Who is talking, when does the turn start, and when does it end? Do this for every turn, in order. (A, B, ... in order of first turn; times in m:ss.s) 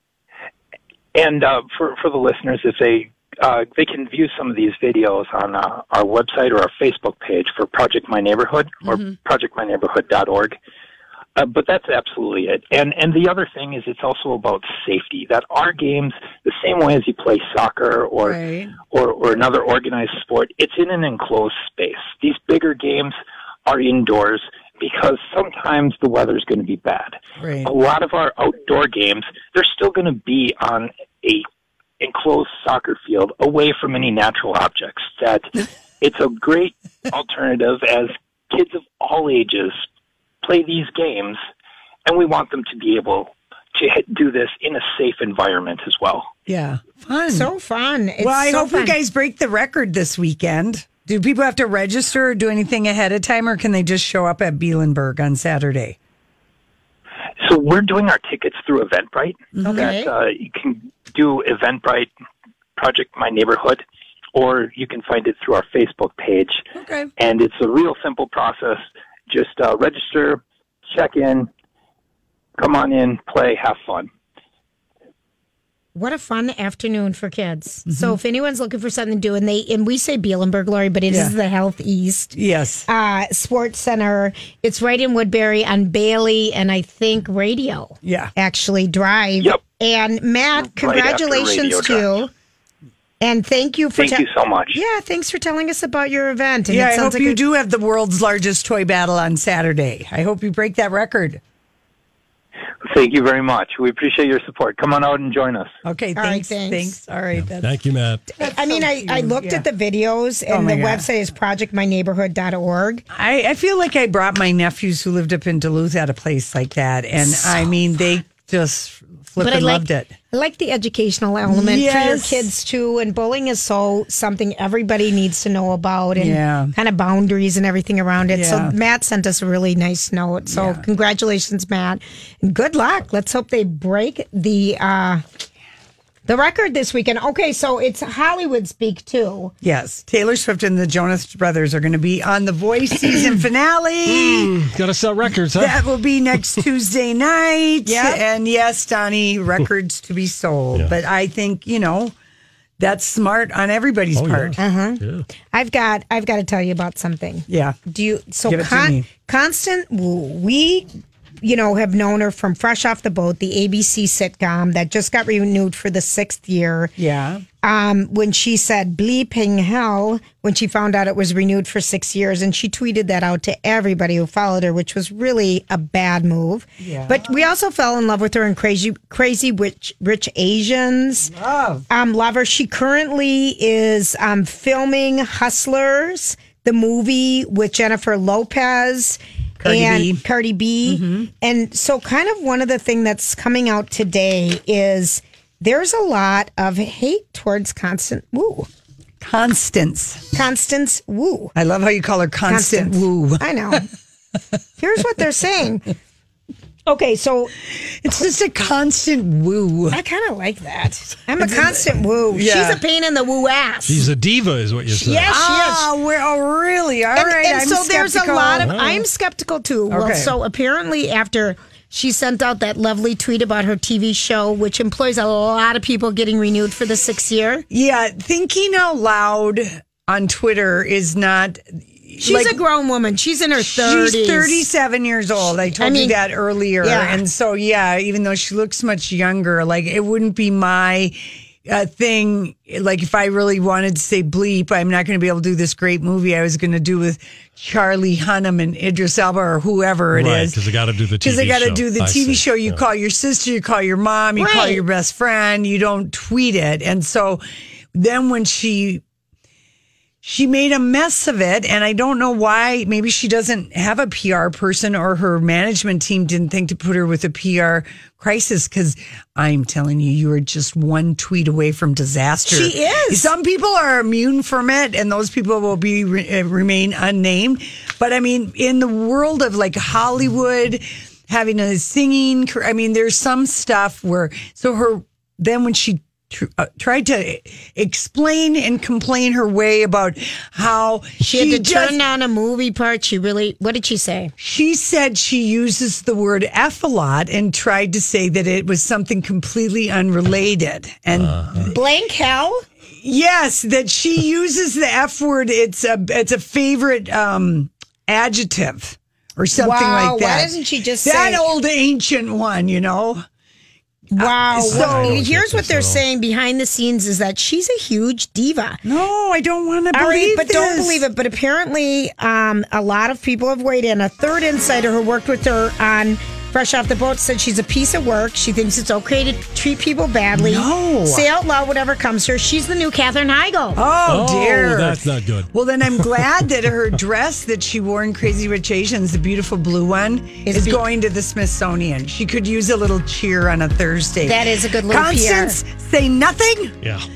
0:01.2-0:10.6 A
0:11.4-0:18.4 A
0:18.2-0:18.8 B
0:18.9-0:23.2 A
0:23.7-0:31.4 A
0:27.4-0:27.7 B
0:32.0-0:35.5 A
0:36.0-0:39.8 A
0:40.4-0:41.4 A
0:42.1-0:46.3 A
0:46.5-0:47.5 B
0:47.3-0:49.0 C
0:48.2-0:56.0 B
0:57.4-1:02.1 A
0:59.6-0:59.9 B
0:59.6-1:00.1 C
1:02.8-1:03.8 A
1:04.4-1:11.5 A
1:06.8-1:07.1 B
1:12.6-1:14.1 A
1:16.0-1:22.3 C
1:17.9-1:18.2 B
1:21.1-1:21.4 B
1:22.3-1:22.9 B
1:22.9-1:32.3 C
1:28.0-1:28.3 B
1:30.6-1:32.1 A
1:33.2-1:37.4 C
1:34.0-1:34.8 A
1:36.7-1:41.4 B
1:42.8-1:45.8 A
1:45.8-1:47.8 B
1:46.2-1:47.0 C
1:47.4-1:48.2 D
1:48.4-1:53.0 C
1:48.4-1:49.7 B
1:50.5-1:51.1 B
1:53.1-2:00.1 B
1:59.4-2:15.2 C
2:01.5-2:02.5 B
2:06.2-2:06.7 B
2:08.3-2:08.7 B
2:10.5-2:10.8 B
2:16.3-2:19.5 C
2:19.6-2:24.6 B
2:24.1-2:25.8 D
2:25.6-2:32.1 B
2:27.9-2:28.2 C
2:32.8-2:34.6 B
2:34.2-2:35.2 D
2:34.6-2:40.9 C
2:37.5-2:37.8 B
2:38.4-2:39.1 B
2:41.4-2:47.0 C
2:47.0-2:47.4 B
2:47.6-3:01.3 C
2:56.8-2:57.3 B
3:01.3-3:01.8 B
3:01.9-3:18.7 C
3:09.6-3:10.2 B
3:10.9-3:11.3 B
3:19.2-3:20.3 B
3:20.3-3:21.5 C
3:21.6-3:23.8 B
3:22.5-3:23.9 C
3:24.8-3:25.9 C
3:26.9-3:27.5 C
3:27.8-3:30.0 B
3:29.9-3:34.0 C
3:31.4-3:32.8 B
3:33.8-3:35.3 D
3:34.9-3:35.9 C
3:35.3-3:38.7 B
3:37.2-3:47.6 C
3:38.6-3:39.0 D
3:39.9-3:40.4 B
3:47.7-3:52.6 B
3:52.2-3:54.6 C
3:53.6-4:10.6 B
3:55.6-3:56.2 C
3:56.8-3:57.2 C
4:10.1-4:12.8 D
4:11.2-4:17.4 B
4:14.4-4:14.8 C
4:17.9-4:19.0 B
4:20.2-4:52.0 B
4:32.4-4:33.3 C
4:51.2-4:54.3 C
4:54.4-5:01.7 B
5:01.2-5:01.6 D
5:01.7-5:02.7 C
5:03.0-5:13.2 B
5:09.6-5:11.4 C
5:14.1-5:18.8 C
5:14.2-5:15.2 B
5:14.6-5:16.0 D
5:18.8-5:21.0 B
5:19.9-5:33.8 C
5:30.3-5:31.3 B
5:33.8-5:46.8 B
5:34.1-5:36.2 D
5:40.5-5:40.8 C
5:44.2-5:45.6 C